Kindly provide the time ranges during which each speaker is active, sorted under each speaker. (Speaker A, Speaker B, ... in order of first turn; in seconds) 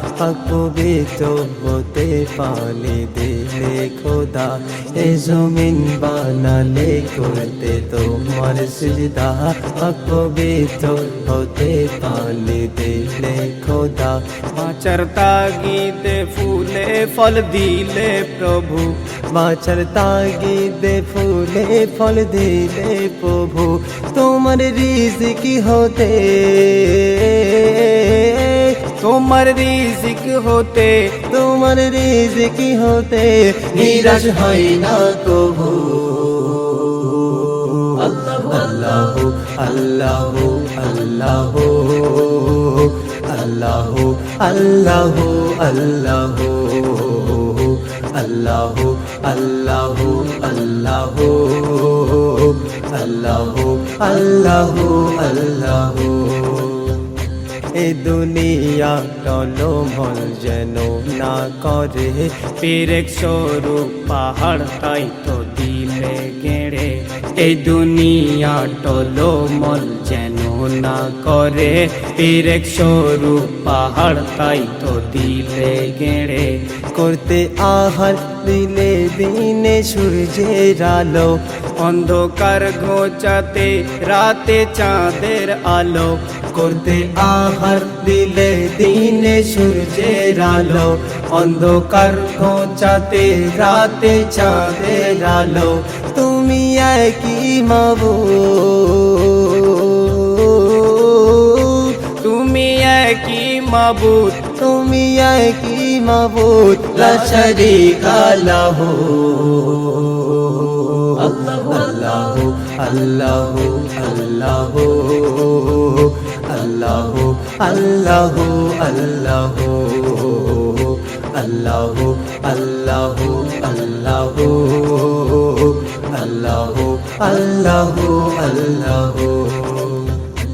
Speaker A: 0.2-14.4, 19.2-29.0, 31.2-57.2, 57.7-62.6, 76.9-81.4, 86.5-102.1, 104.6-130.3
Speaker B: 14.5-19.0, 29.0-31.2, 62.6-76.7, 81.8-86.2, 102.2-104.5